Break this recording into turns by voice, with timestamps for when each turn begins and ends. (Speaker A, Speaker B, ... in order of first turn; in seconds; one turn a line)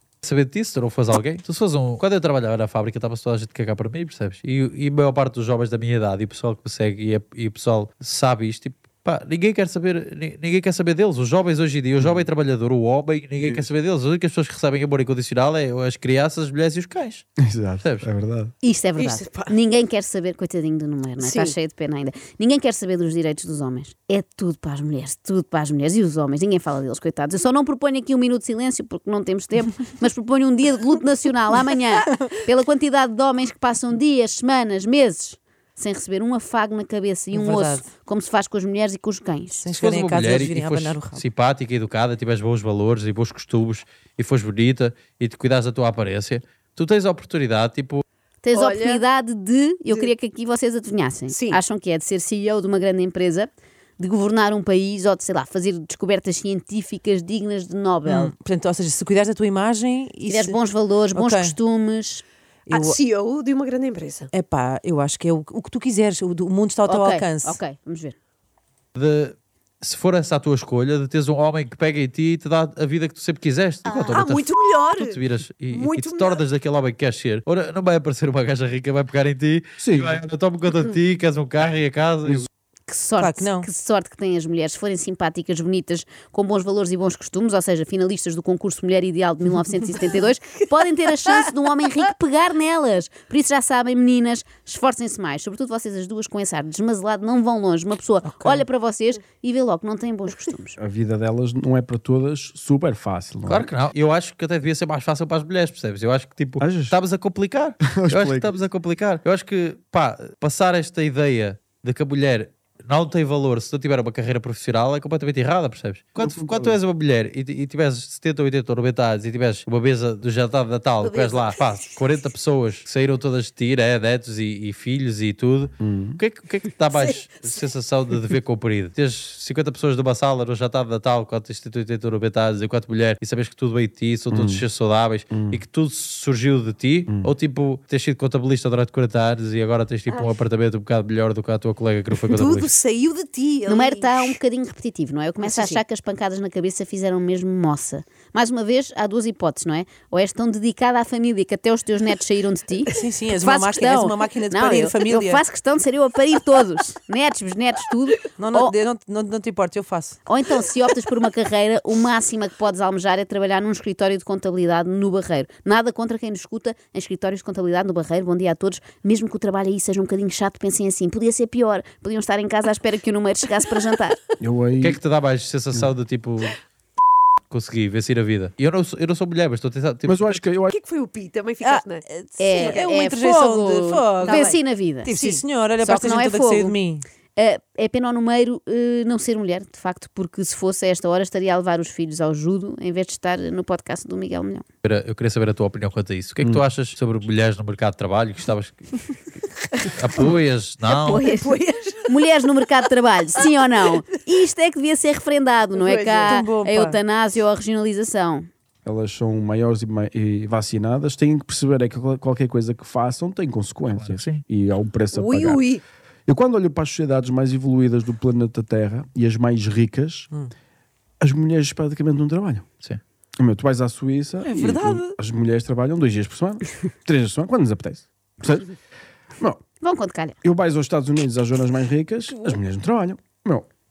Speaker A: 0.2-17.2
Speaker B: 12.0-12.2
Speaker B: 17.4-18.5
Speaker A: 17.8-18.1
Speaker C: 18.6-39.7
Speaker D: 19.0-19.5
Speaker D: 21.2-21.5
Speaker E: 37.3-37.9
Speaker E: 39.6-41.2
Speaker A: 39.7-48.0
Speaker C: 48.4-58.3
Speaker D: 48.5-49.0
Speaker D: 51.3-51.6
Speaker E: 58.0-60.6
Speaker C: 60.3-62.2
Speaker E: 61.1-61.6
Speaker E: 62.7-63.0
Speaker D: 62.7-64.3
Speaker E: 64.3-67.6
Speaker C: 66.9-68.2
Speaker A: 68.9-82.5
Speaker D: 73.8-76.4
Speaker B: 79.8-80.2
Speaker C: 82.9-100.8
Speaker E: 83.2-83.7
Speaker B: 100.8-103.7
Speaker A: 103.5-142.7
Speaker B: 106.6-107.0
Speaker B: 107.8-108.5
Speaker B: 116.2-116.8
Speaker D: 121.0-121.7
Speaker B: 125.8-126.2
Speaker D: 126.9-127.4
Speaker B: 134.3-134.6
Speaker B: 135.3-135.6
Speaker D: 142.2-144.3
Speaker C: 143.7-158.8
Speaker D: 145.4-145.8
Speaker E: 152.9-155.4
Speaker E: 158.3-160.2
Speaker C: 160.3-174.2
Speaker B: 174.4-175.0
Speaker A: 174.8-176.6
Speaker A: 177.5-180.4
Speaker B: 180.1-180.7
Speaker D: 180.7-182.0
Speaker E: 181.6-184.4
Speaker C: 182.4-185.1
Speaker D: 182.6-182.8
Speaker D: 184.2-184.6
Speaker E: 185.0-187.0
Speaker D: 185.1-185.4
Speaker C: 185.8-186.8
Speaker C: 187.3-194.6
Speaker A: 194.8-199.0
Speaker A: 199.8-201.2
Speaker D: 200.8-202.1
Speaker C: 201.1-201.5
Speaker C: 202.1-208.5
Speaker D: 205.7-206.3
Speaker E: 206.3-207.0
Speaker B: 208.8-215.7
Speaker A: 213.9-214.4
Speaker D: 215.1-215.8
Speaker B: 216.3-220.3
Speaker B: 221.2-222.6
Speaker B: 223.4-228.7
Speaker E: 224.4-225.1
Speaker C: 229.8-230.4
Speaker B: 230.4-233.7
Speaker D: 232.3-232.6